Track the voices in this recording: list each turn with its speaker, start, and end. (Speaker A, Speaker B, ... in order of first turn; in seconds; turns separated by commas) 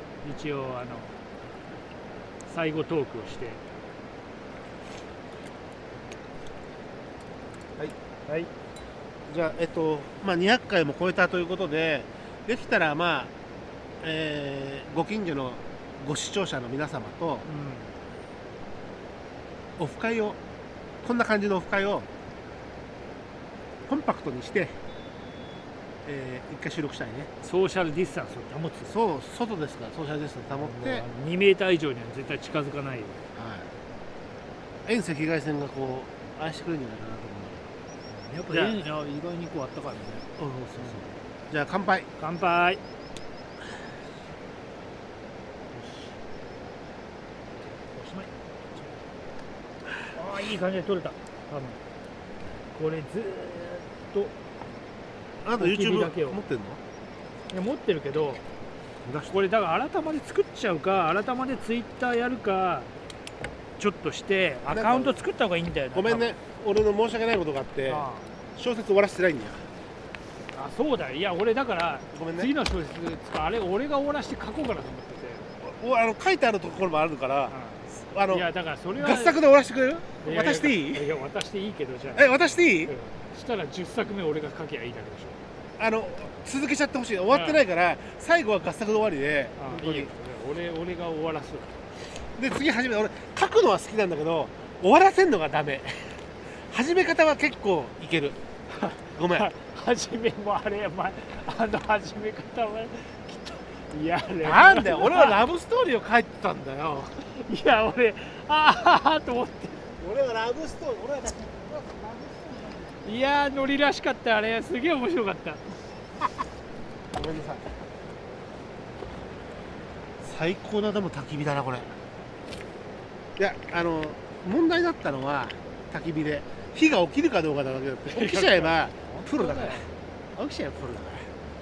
Speaker A: 0.2-1.1, Speaker A: 2.5-3.6, Speaker B: 9.3-13.3, Speaker B: 14.0-17.4, Speaker A: 17.4-17.9, Speaker B: 19.8-20.4, Speaker B: 21.0-22.1, Speaker B: 23.9-24.7, Speaker B: 26.0-27.3, Speaker A: 27.4-28.9, Speaker B: 28.8-31.0, Speaker A: 30.5-33.2, Speaker B: 33.3-33.7, Speaker B: 34.9-37.6, Speaker A: 38.1-40.2, Speaker B: 38.5-38.8, Speaker B: 40.4-42.1, Speaker A: 42.2-42.8, Speaker A: 45.7-46.2, Speaker A: 47.8-48.3, Speaker A: 50.1-51.8, Speaker A: 52.7-54.3, Speaker B: 55.4-56.8, Speaker A: 55.6-56.4, Speaker A: 57.5-58.4, Speaker B: 59.0-59.4, Speaker A: 59.3-62.9, Speaker A: 63.8-66.3, Speaker B: 64.7-65.2, Speaker B: 65.9-69.6, Speaker A: 67.8-68.3, Speaker A: 70.5-75.5, Speaker B: 72.1-72.5, Speaker B: 75.6-81.1, Speaker A: 77.5-79.4, Speaker A: 80.2-82.3, Speaker B: 82.1-82.9, Speaker A: 82.8-85.4, Speaker B: 85.8-90.1, Speaker A: 87.3-87.6, Speaker A: 89.5-91.8, Speaker B: 92.3-98.4, Speaker A: 98.7-105.4, Speaker B: 99.1-99.5, Speaker B: 104.4-107.1, Speaker A: 107.1-109.8, Speaker B: 110.0-113.0, Speaker A: 113.0-115.6, Speaker B: 117.1-117.6, Speaker B: 120.2-121.9, Speaker B: 123.4-131.3, Speaker A: 128.1-129.9